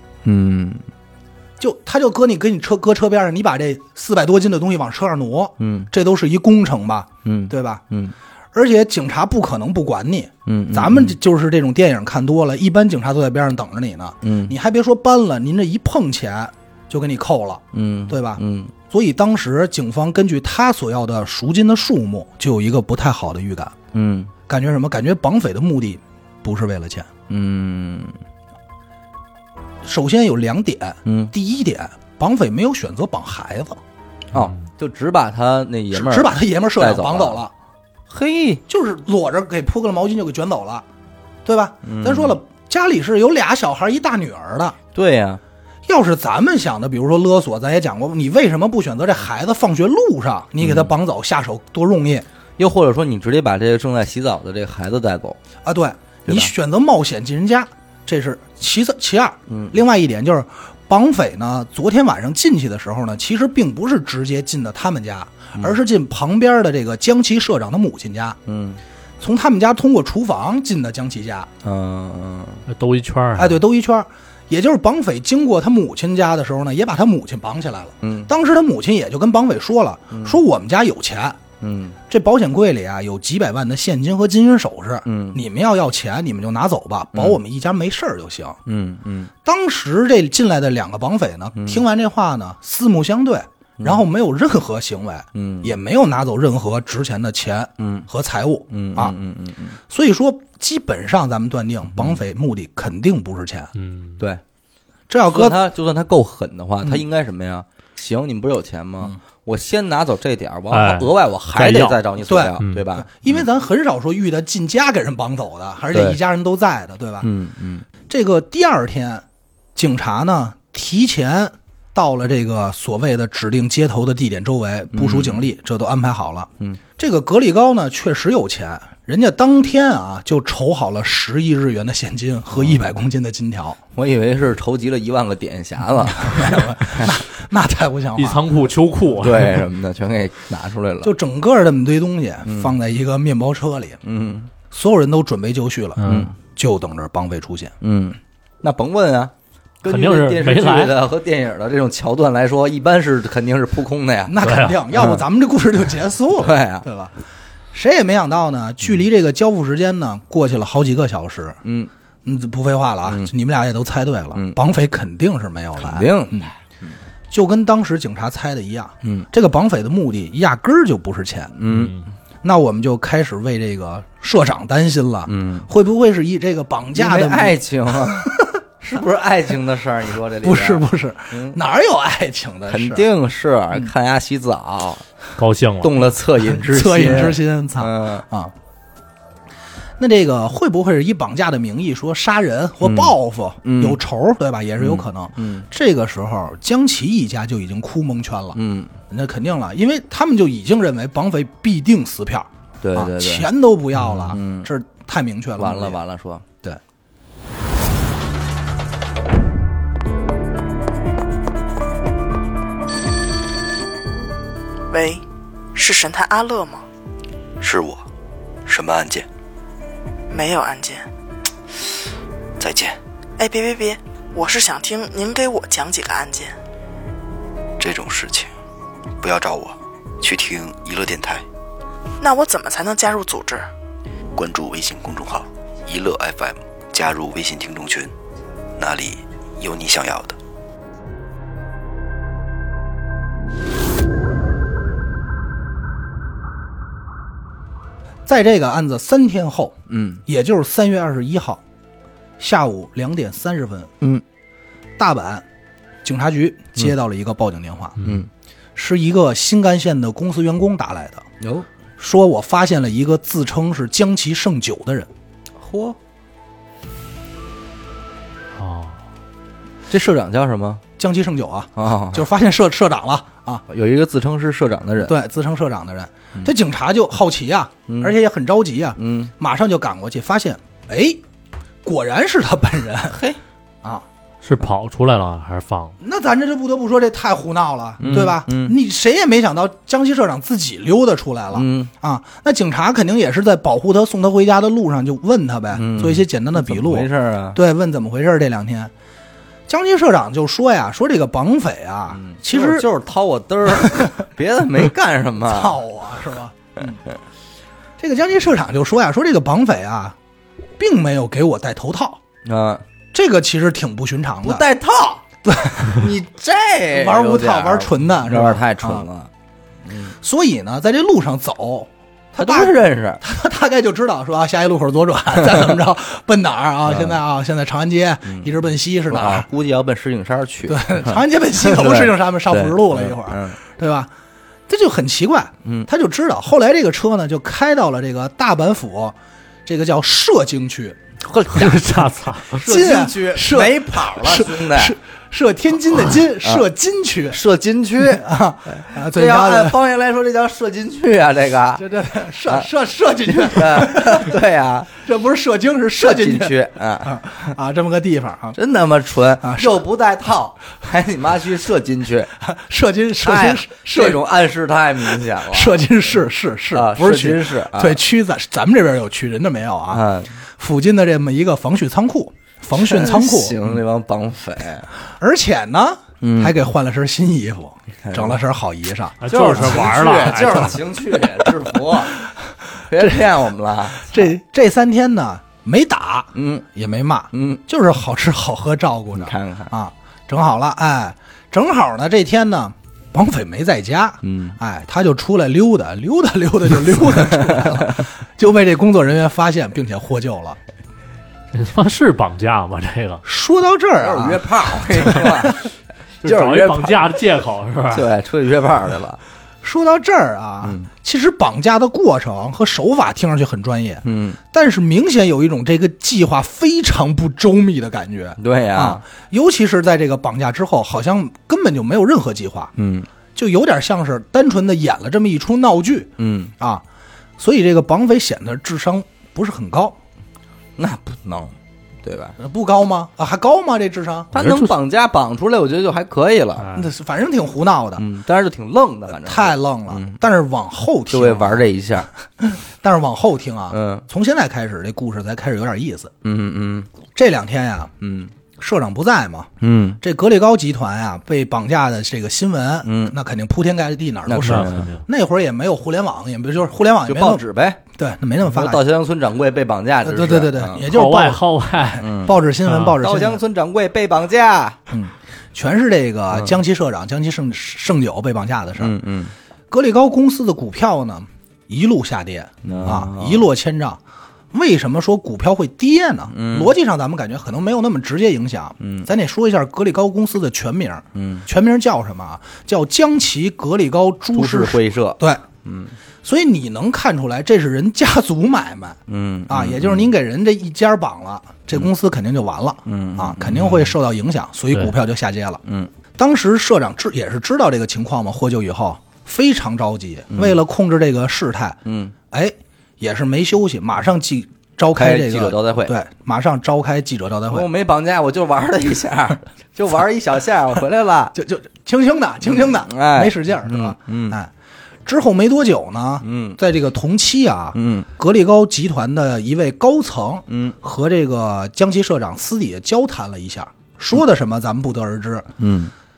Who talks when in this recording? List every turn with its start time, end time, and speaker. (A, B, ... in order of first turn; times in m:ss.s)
0:00.2-0:00.8 A
0:01.6-0:07.8 B
0:05.6-0:05.9 A
0:07.2-0:08.1 A
0:08.5-0:23.7 B
0:10.4-0:11.2 A
0:14.2-0:14.5 A
0:17.7-0:18.7 A
0:23.9-0:24.3 A
0:24.5-0:27.1 B
0:27.3-0:28.2 A
0:29.8-0:33.8 B
0:31.0-0:31.3 A
0:34.3-0:37.4 A
0:35.9-0:37.5 B
0:38.1-0:38.6 A
0:38.7-0:40.8 B
0:41.4-0:44.8 B
0:41.8-0:42.4 A
0:44.9-0:45.4 A
0:45.8-0:52.2 B
0:50.6-0:50.9 A
0:52.6-0:55.4 A
0:55.6-1:08.4 B
0:56.3-0:56.5 A
0:59.5-0:59.8 A
1:08.4-1:08.8 A
1:09.2-1:11.5 B
1:11.6-1:12.6 A
1:12.7-1:13.6 C
1:13.4-1:21.4 B
1:18.0-1:18.3 A
1:20.1-1:20.4 A
1:21.6-1:22.0 A
1:22.1-1:28.6 B
1:25.0-1:25.4 A
1:28.6-1:29.3 A
1:29.4-1:39.1 B
1:31.6-1:31.8 A
1:33.8-1:34.0 A
1:35.3-1:35.7 A
1:37.8-1:38.1 A
1:38.7-1:39.8 A
1:39.9-1:43.7 B
1:43.7-1:44.2 C
1:45.1-1:45.6 B
1:45.3-1:53.4 A
1:50.7-1:52.0 C
1:52.3-1:57.3 B
1:55.9-1:56.2 A
1:57.2-1:57.8 A
1:58.1-1:59.2 B
1:59.8-2:13.8 B
2:04.9-2:05.4 A
2:13.9-2:17.2 A
2:16.0-2:18.4 B
2:18.2-2:19.6 C
2:19.2-2:21.1 A
2:21.0-2:24.0 B
2:22.4-2:22.7 A
2:24.0-2:24.5 A
2:24.7-2:27.7 B
2:26.0-2:26.3 C
2:26.0-2:26.3 A
2:27.8-2:34.4 A
2:29.9-2:31.0 C
2:34.3-2:37.1 B
2:34.4-2:34.8 C
2:34.9-2:35.2 A
2:36.4-2:36.8 A
2:37.7-2:41.6 B
2:41.6-2:41.9 A
2:42.2-2:46.5 B
2:43.0-2:43.3 A
2:44.3-2:44.6 A
2:45.8-2:47.0 A
2:47.3-2:51.5 B
2:51.6-2:52.0 A
2:51.7-2:52.0 C
2:52.4-2:58.6 B
2:55.3-2:55.7 A
2:56.9-3:01.6 A
3:00.4-3:03.0 B
3:02.7-3:05.0 A
3:05.4-3:06.0 C
3:05.8-3:08.2 A
3:06.4-3:08.5 B
3:10.0-3:18.6 B
3:12.8-3:14.0 A
3:14.8-3:15.6 A
3:18.5-3:18.9 A
3:19.1-3:26.0 B
3:22.8-3:23.5 A
3:24.0-3:24.7 A
3:25.6-3:26.6 A
3:34.9-3:35.2 D
3:35.7-3:36.8 D
3:37.6-3:38.0 E
3:38.6-3:39.3 E
3:40.3-3:41.1 D
3:42.6-3:43.0 E
3:43.4-3:46.6 D
3:47.8-3:48.5 E
3:49.2-3:51.4 E
3:52.2-3:53.7 D
3:54.3-3:58.1 E
3:58.8-4:00.4 E
4:08.2-4:11.6 B
4:09.9-4:10.2 A
4:12.4-4:13.9 B
4:15.0-4:15.4 B
4:16.0-4:18.0 B
4:18.0-4:18.3 A
4:18.8-4:21.2 B
4:21.4-4:21.7 A
4:22.0-4:25.1 B
4:25.6-4:26.0 A
4:28.6-4:29.0 C
4:29.9-4:30.8 A
4:31.0-4:33.6 B
4:31.8-4:32.2 A
4:33.7-4:35.2 A
4:35.0-4:41.2 B
4:37.9-4:38.1 A
4:39.0-4:39.3 A
4:41.8-4:43.2 B
4:43.1-4:43.4 A
4:44.4-4:46.0 C
4:46.0-4:58.9 B
4:48.0-4:48.8 A
4:51.5-4:51.9 A
4:55.7-4:57.6 A
4:59.7-5:02.9 B
5:02.1-5:05.8 A
5:03.8-5:04.1 B
5:05.5-5:07.0 B
5:08.0-5:10.2 B
5:10.8-5:12.2 B
5:12.4-5:12.8 A
5:13.1-5:14.6 B
5:14.4-5:15.2 A
5:15.4-5:16.1 B
5:15.8-5:19.3 A
5:16.9-5:19.0 B
5:19.8-5:20.1 A
5:20.2-5:29.5 B
5:22.4-5:23.2 A
5:26.8-5:27.2 A
5:28.2-5:28.5 A
5:29.1-5:33.6 A
5:30.7-5:34.1 B
5:34.7-5:41.0 B
5:41.2-5:45.0 A
5:41.5-5:42.6 C
5:42.6-5:47.4 B
5:46.4-5:46.7 A
5:47.3-5:51.8 A
5:48.0-5:49.8 B
5:51.8-5:54.4 B
5:53.2-5:54.9 A
5:54.9-5:58.6 B
5:56.0-5:57.2 A
5:58.5-6:02.3 A
5:59.4-5:59.8 B
6:02.4-6:04.2 B
6:03.2-6:05.9 A
6:05.0-6:13.6 B
6:06.7-6:08.0 A
6:09.9-6:10.3 A
6:12.7-6:14.9 A
6:15.2-6:20.7 B
6:16.2-6:16.6 A
6:18.0-6:18.4 A
6:19.2-6:20.8 C
6:19.2-6:22.2 A
6:21.2-6:22.3 B
6:22.8-6:24.3 A
6:23.0-6:23.3 B
6:23.9-6:40.6 B
6:26.3-6:26.6 A
6:27.3-6:27.6 A
6:29.1-6:29.7 A
6:34.2-6:34.6 A
6:37.4-6:38.0 A
6:41.5-6:43.2 C
6:43.2-6:45.5 B
6:44.0-6:45.6 A
6:46.2-6:48.1 C
6:46.2-6:47.0 A
6:47.9-6:49.2 A
6:49.6-7:02.7 B
6:50.6-6:50.9 A
6:54.0-6:54.4 A
6:58.4-6:59.0 A
7:02.8-7:03.1 A
7:03.3-7:06.8 B
7:06.2-7:06.5 A
7:07.4-7:10.0 B
7:10.8-7:12.4 A
7:12.4-7:14.3 B
7:14.3-7:16.7 A
7:14.3-7:14.7 C
7:16.6-7:16.9 C
7:16.7-7:18.0 B
7:18.0-7:20.2 A
7:19.1-7:21.7 B
7:21.1-7:22.1 A
7:22.4-7:26.1 B
7:23.7-7:24.0 A
7:26.2-7:26.9 A
7:27.1-7:27.9 B
7:28.0-7:28.3 A
7:28.6-7:29.5 B
7:29.6-7:30.0 A
7:30.0-7:37.4 B
7:32.8-7:33.2 A
7:34.2-7:34.9 A
7:34.4-7:35.0 C
7:37.0-7:37.8 A
7:37.9-7:38.8 B
7:38.4-7:40.8 A
7:40.0-7:41.4 B
7:40.9-7:42.1 C
7:42.0-7:42.4 A
7:42.1-7:43.4 B
7:42.6-7:43.0 C
7:43.0-7:44.8 A
7:44.9-7:49.0 B
7:48.8-7:49.3 A
7:49.7-7:54.0 B
7:52.6-7:53.5 A
7:54.5-8:05.4 B
7:56.3-7:56.7 A
7:58.8-7:59.1 A
8:01.1-8:01.5 A
8:04.3-8:06.0 A
8:06.2-8:15.6 B
8:09.1-8:10.1 A
8:12.8-8:13.9 A
8:15.6-8:15.9 A
8:16.1-8:27.7 B
8:20.3-8:20.6 A
8:21.8-8:22.1 A
8:24.9-8:26.0 A
8:27.5-8:31.4 A
8:31.3-8:34.5 B
8:32.5-8:34.4 A
8:35.0-8:45.5 B
8:36.2-8:36.6 A
8:37.7-8:38.1 A
8:40.5-8:40.8 A
8:45.6-8:45.9 A